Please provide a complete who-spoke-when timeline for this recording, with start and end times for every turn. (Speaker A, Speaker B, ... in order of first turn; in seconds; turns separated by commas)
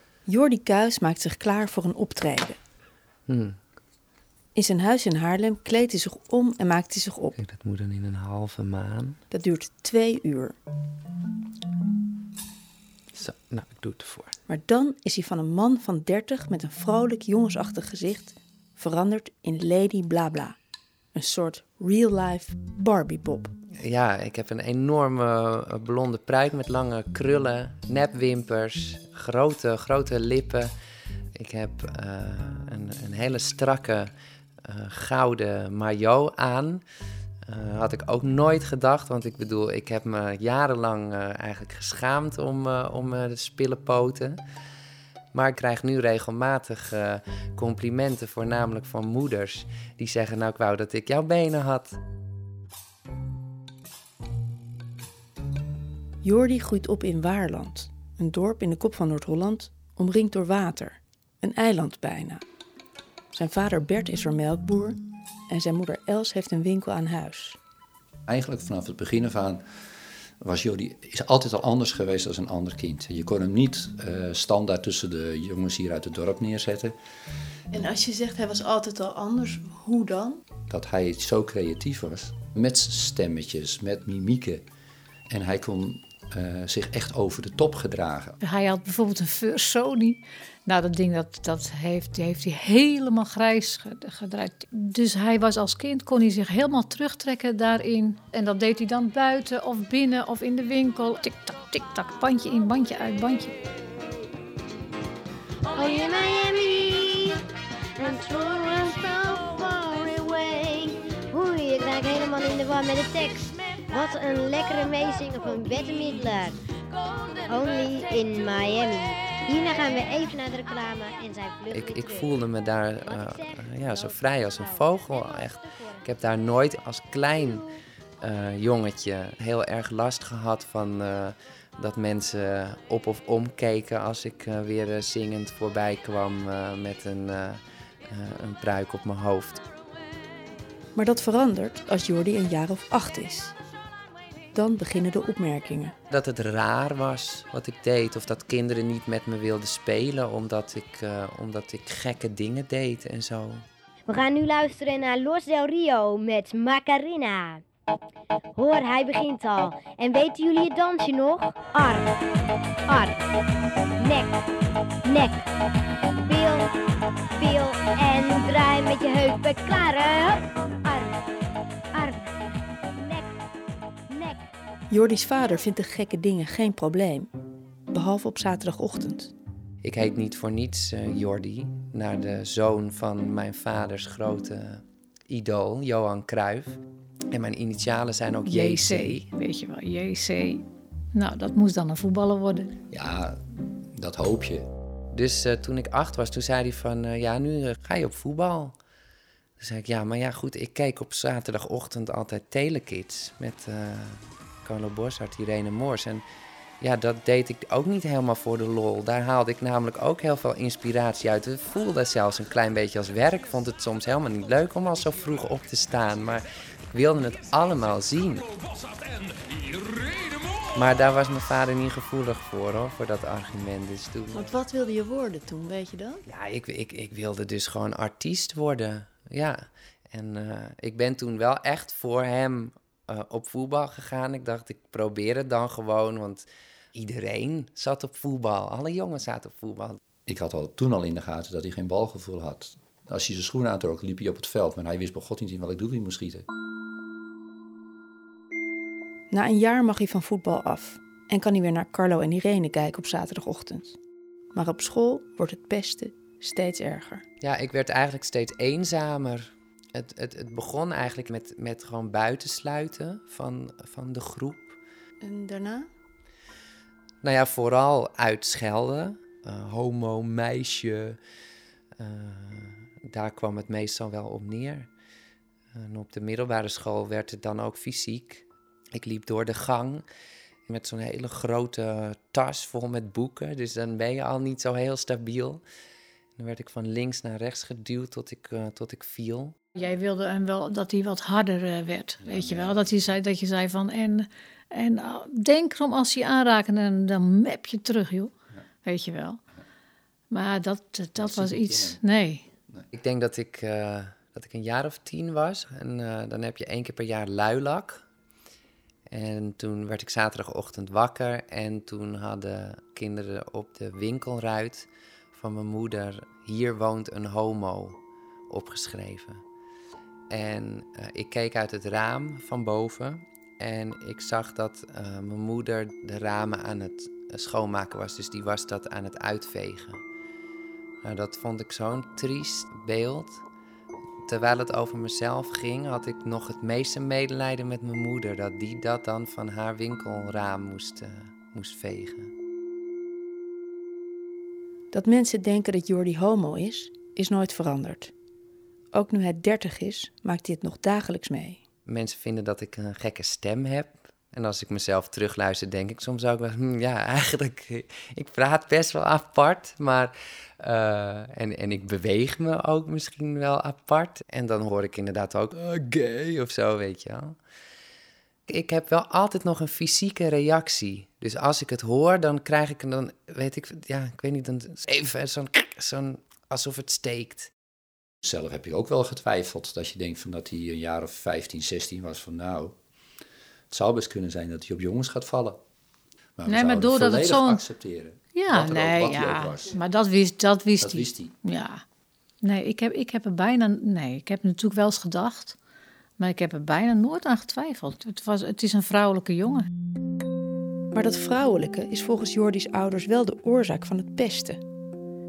Speaker A: 0.2-2.6, Speaker B: 3.3-3.6, Speaker A: 4.5-7.4, Speaker B: 7.3-9.2, Speaker A: 9.3-10.6, Speaker B: 13.1-14.3, Speaker A: 14.5-20.6, Speaker A: 21.1-23.5, Speaker B: 23.8-30.7, Speaker B: 31.4-34.1, Speaker B: 34.6-36.8, Speaker B: 37.5-44.4, Speaker B: 45.3-52.0, Speaker A: 56.2-62.4, Speaker A: 63.3-65.0, Speaker A: 65.5-67.6, Speaker C: 68.3-69.6, Speaker C: 70.4-76.9, Speaker A: 77.7-80.4, Speaker C: 80.7-84.6, Speaker C: 85.3-88.4, Speaker D: 88.4-103.5, Speaker E: 105.7-107.4, Speaker E: 108.0-116.6, Speaker E: 117.4-122.3, Speaker B: 121.7-127.7, Speaker E: 123.0-126.1, Speaker B: 128.2-139.6, Speaker A: 140.9-143.5, Speaker A: 144.5-145.9, Speaker B: 146.1-153.6, Speaker E: 154.1-157.6, Speaker E: 158.6-162.1, Speaker E: 162.9-163.2, Speaker E: 164.0-164.4, Speaker E: 165.0-165.4, Speaker E: 166.2-166.7, Speaker E: 167.3-171.2, Speaker E: 171.9-172.3, Speaker E: 172.9-173.3, Speaker E: 174.1-174.4, Speaker A: 174.9-177.3, Speaker A: 177.9-179.3, Speaker B: 179.8-186.8, Speaker B: 187.3-189.3, Speaker D: 188.4-190.6, Speaker D: 191.1-192.7, Speaker C: 192.9-193.3, Speaker C: 194.0-194.7, Speaker B: 195.1-198.7, Speaker B: 199.6-206.2, Speaker B: 206.8-218.4, Speaker B: 220.7-224.5, Speaker A: 224.3-226.2, Speaker B: 226.3-240.0, Speaker C: 240.3-246.4, Speaker A: 249.3-254.0, Speaker A: 254.5-257.2, Speaker B: 257.4-264.8, Speaker A: 265.2-265.9, Speaker B: 267.2-271.2, Speaker B: 272.0-274.9, Speaker B: 275.7-280.0, Speaker B: 280.7-285.6, Speaker B: 286.4-289.5, Speaker D: 289.8-298.3, Speaker C: 292.2-292.9, Speaker D: 298.8-299.4, Speaker D: 300.3-302.4, Speaker C: 301.2-302.0, Speaker B: 302.9-308.0, Speaker B: 309.1-318.0, Speaker B: 318.5-319.4, Speaker B: 320.3-330.0, Speaker B: 331.0-333.4, Speaker B: 334.2-342.3, Speaker A: 344.9-348.1, Speaker A: 348.9-351.6, Speaker B: 351.9-367.4, Speaker B: 368.5-377.5, Speaker C: 378.2-382.8, Speaker C: 383.7-385.6, Speaker C: 386.4-389.8, Speaker D: 386.4-387.6, Speaker D: 388.3-391.8, Speaker C: 390.8-391.4, Speaker D: 392.4-395.6, Speaker D: 396.2-399.7, Speaker A: 400.9-404.6